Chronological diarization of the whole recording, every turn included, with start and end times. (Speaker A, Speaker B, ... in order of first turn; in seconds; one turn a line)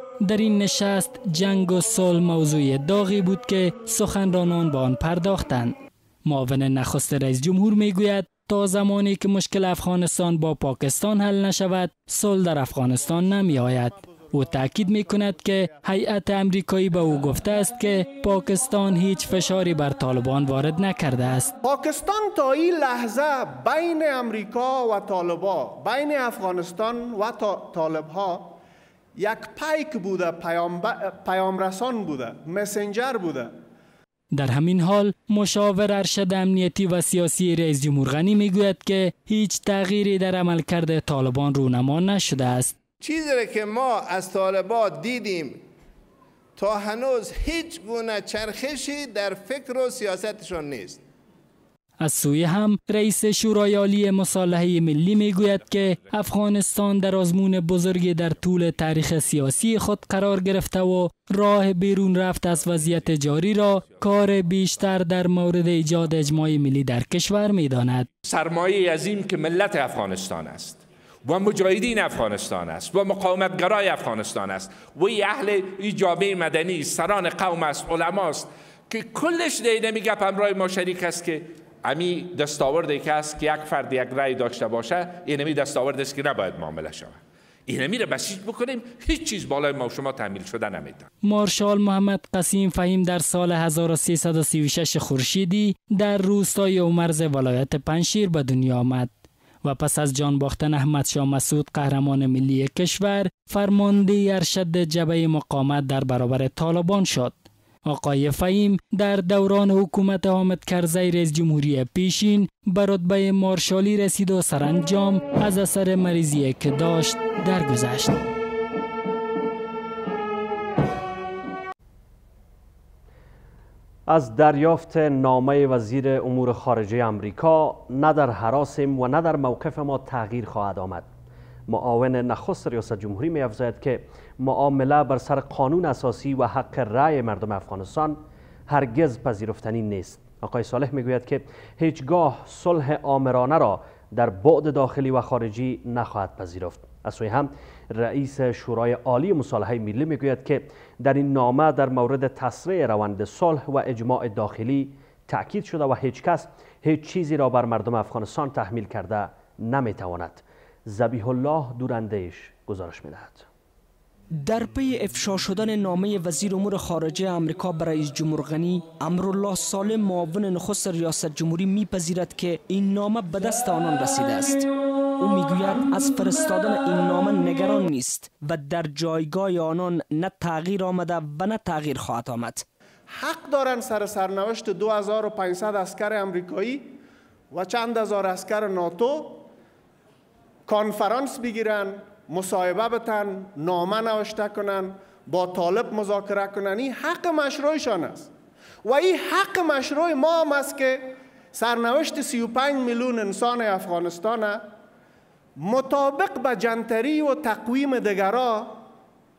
Speaker A: 0.2-5.8
Speaker A: 6.3-21.5
Speaker B: 21.6-28.6
Speaker B: 29.1-33.5
Speaker A: 34.3-42.8
Speaker C: 43.0-45.6
Speaker C: 46.5-51.0
Speaker A: 52.0-68.1
Speaker D: 68.2-91.1
Speaker A: 91.2-99.1
Speaker A: 99.6-107.3
Speaker A: 107.9-118.2
Speaker E: 124.1-131.1
Speaker E: 131.7-163.4
Speaker F: 164.3-174.6
Speaker F: 175.2-182.6
Speaker B: 183.1-186.9
Speaker B: 187.5-189.5
Speaker B: 190.7-198.3
Speaker B: 198.8-204.6
Speaker B: 205.6-208.8